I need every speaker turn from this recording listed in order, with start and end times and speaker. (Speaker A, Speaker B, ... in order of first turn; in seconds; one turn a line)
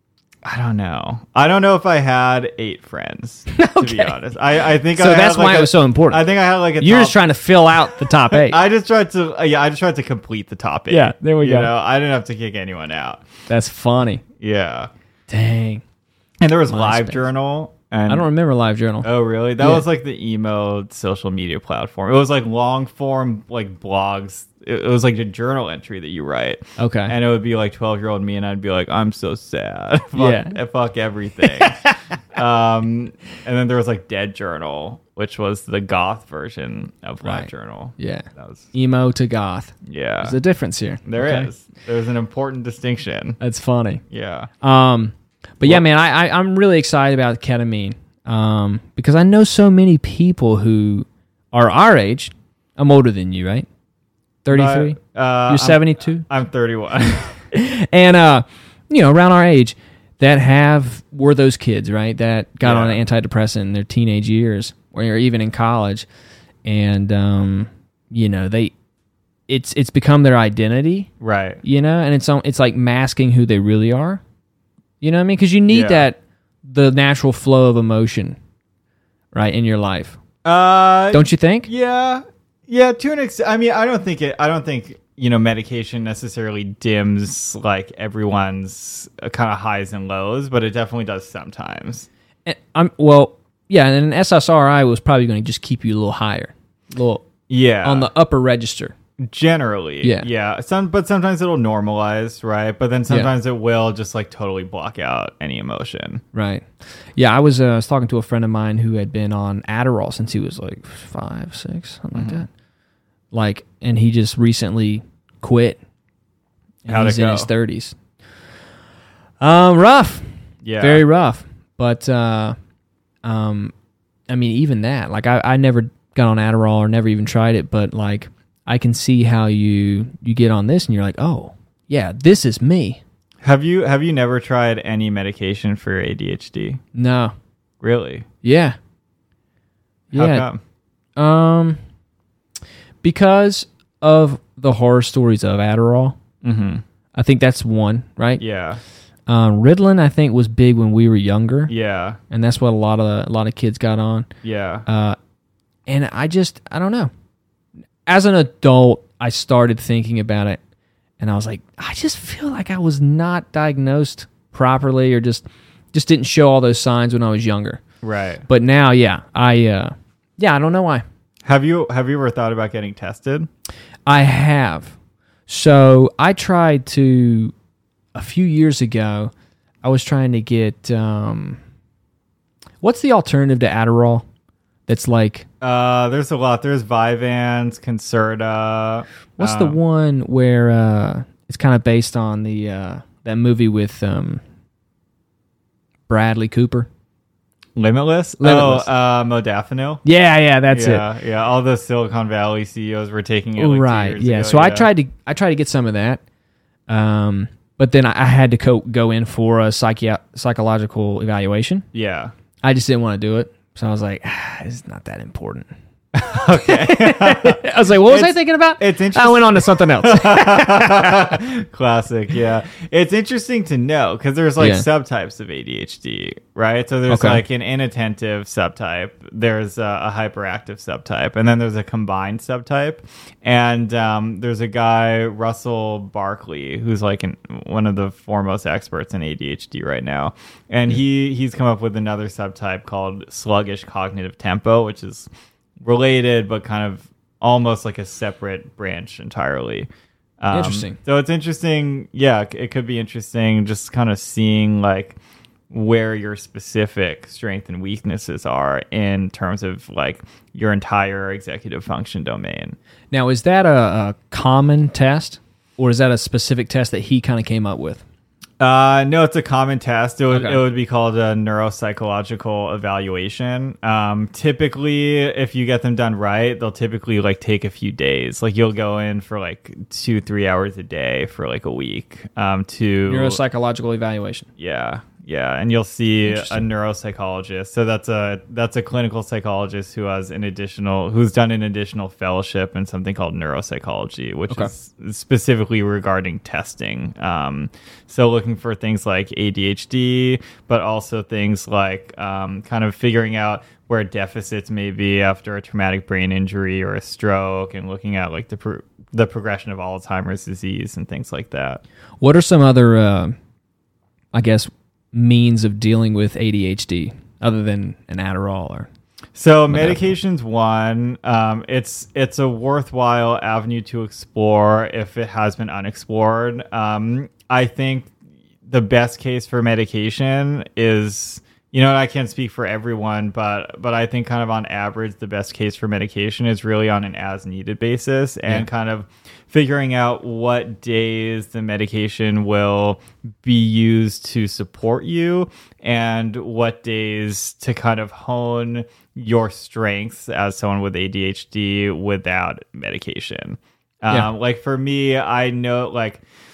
Speaker A: 0.4-7.2
Speaker B: 3.5-4.2
Speaker B: 4.9-6.2
Speaker B: 6.8-8.6
Speaker A: 7.8-13.2
Speaker B: 10.9-11.7
Speaker B: 13.5-14.2
Speaker A: 14.4-14.9
Speaker B: 15.3-15.8
Speaker A: 16.4-18.2
Speaker B: 16.7-17.2
Speaker B: 18.1-19.8
Speaker A: 19.0-38.7
Speaker B: 26.8-27.1
Speaker B: 30.1-30.6
Speaker B: 31.4-32.0
Speaker B: 37.2-41.5
Speaker A: 39.8-40.4
Speaker A: 41.0-43.4
Speaker B: 43.4-44.0
Speaker A: 44.1-44.5
Speaker B: 44.6-53.7
Speaker B: 54.4-56.2
Speaker A: 54.5-57.4
Speaker B: 57.5-66.1
Speaker A: 62.6-63.0
Speaker B: 66.6-68.7
Speaker B: 69.5-71.1
Speaker A: 71.2-71.6
Speaker B: 71.6-74.2
Speaker B: 75.0-78.4
Speaker A: 75.7-76.0
Speaker B: 79.3-80.2
Speaker A: 80.4-92.1
Speaker B: 81.1-81.7
Speaker B: 92.5-97.3
Speaker A: 97.5-98.1
Speaker B: 97.8-99.0
Speaker A: 99.2-106.2
Speaker B: 100.0-100.3
Speaker B: 106.3-112.5
Speaker A: 112.1-112.5
Speaker B: 113.3-115.8
Speaker A: 116.8-117.5
Speaker B: 116.8-118.0
Speaker B: 119.4-120.3
Speaker A: 120.6-121.0
Speaker B: 120.8-122.5
Speaker B: 123.2-123.7
Speaker B: 124.3-133.0
Speaker A: 133.4-136.8
Speaker B: 136.9-137.3
Speaker A: 137.8-138.2
Speaker B: 138.4-138.8
Speaker B: 140.1-140.5
Speaker A: 140.1-140.6
Speaker B: 141.2-141.8
Speaker B: 143.0-146.2
Speaker A: 146.4-146.8
Speaker B: 147.1-148.4
Speaker A: 148.4-148.8
Speaker B: 149.3-151.7
Speaker A: 151.7-152.2
Speaker B: 152.3-154.3
Speaker A: 154.4-154.8
Speaker B: 154.9-155.2
Speaker B: 155.9-157.1
Speaker B: 158.1-160.6
Speaker B: 161.2-167.8
Speaker A: 168.0-168.4
Speaker B: 168.5-171.0
Speaker A: 171.4-173.5
Speaker B: 174.1-174.9
Speaker B: 175.5-177.5
Speaker B: 178.1-179.3
Speaker B: 179.8-181.6
Speaker B: 182.8-184.2
Speaker B: 184.9-185.4
Speaker A: 185.6-189.8
Speaker B: 189.4-194.4
Speaker B: 196.1-196.9
Speaker A: 197.7-200.0
Speaker B: 198.4-198.9
Speaker B: 200.0-201.1
Speaker A: 200.7-204.9
Speaker B: 203.6-206.2
Speaker B: 206.9-211.8
Speaker A: 211.9-212.3
Speaker B: 212.6-215.7
Speaker A: 216.1-245.3
Speaker B: 216.3-221.3
Speaker B: 224.6-224.8
Speaker B: 227.1-227.4
Speaker A: 245.8-249.9
Speaker A: 250.4-255.2
Speaker B: 250.5-251.0
Speaker A: 255.7-262.8
Speaker B: 263.1-268.0
Speaker A: 268.6-283.4
Speaker B: 270.3-270.6
Speaker B: 283.1-284.5
Speaker A: 284.6-311.8
Speaker B: 286.2-286.6
Speaker B: 312.2-313.3
Speaker B: 314.3-318.9
Speaker A: 319.3-328.1
Speaker B: 319.7-320.1
Speaker A: 328.7-356.2